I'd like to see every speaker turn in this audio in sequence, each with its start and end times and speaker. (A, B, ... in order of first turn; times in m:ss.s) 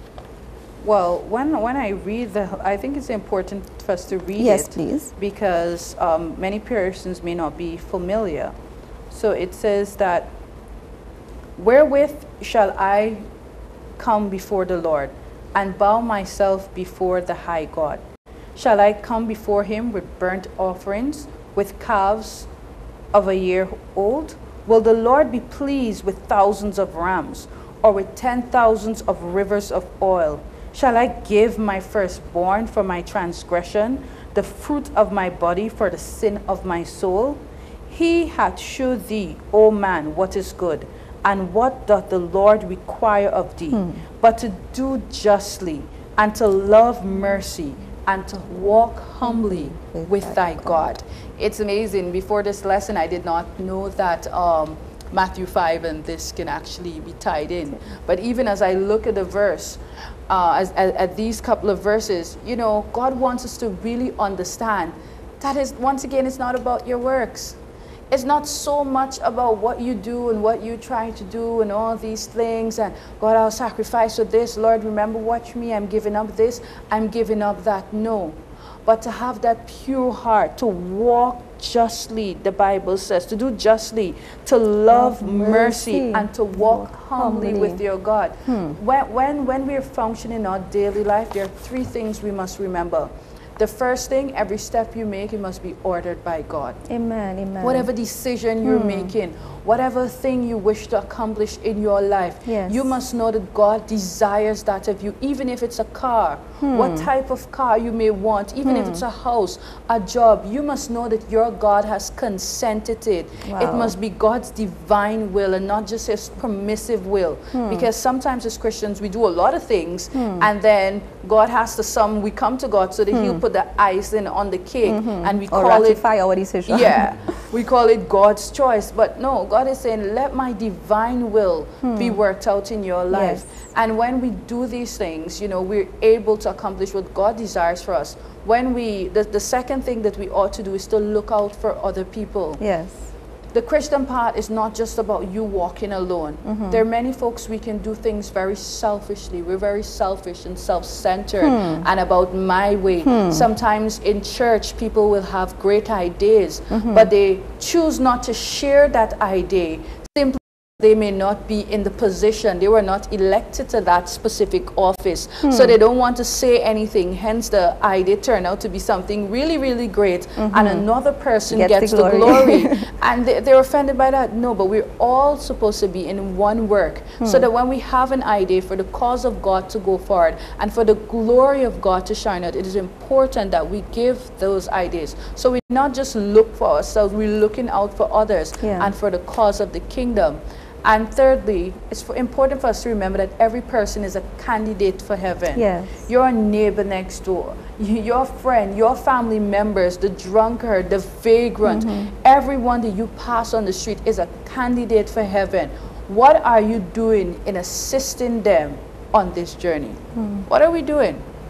0:00.8-0:08.6 A
0:04.4-0:05.1 B
0:09.1-0:10.3 A
0:11.6-0:13.3 A
0:14.0-0:18.0 A
0:18.6-0:22.5 A
0:23.1-1:07.6 A
0:49.2-0:50.8 B
1:08.1-1:36.8 A
1:24.9-1:27.8 B
1:28.5-1:28.8 B
1:36.9-1:37.9 B
1:37.6-2:06.0 A
1:38.6-1:39.1 B
1:42.5-1:42.9 B
1:46.6-1:47.1 B
1:48.6-1:49.0 B
1:53.4-1:54.0 B
1:57.5-1:57.9 B
2:00.2-2:00.5 B
2:03.1-2:03.4 B
2:04.8-2:07.2 B
2:06.7-2:22.6 A
2:11.8-2:12.2 B
2:13.1-2:13.5 B
2:22.6-2:23.1 B
2:23.5-3:31.2 A
2:26.5-2:26.8 B
2:31.4-2:31.8 B
2:33.1-2:33.4 B
2:36.8-2:37.1 B
2:45.4-2:45.7 B
2:50.4-2:50.8 B
2:51.5-2:52.8 B
3:08.6-3:08.9 B
3:15.6-3:16.0 B
3:21.7-3:22.1 B
3:30.2-3:30.4 B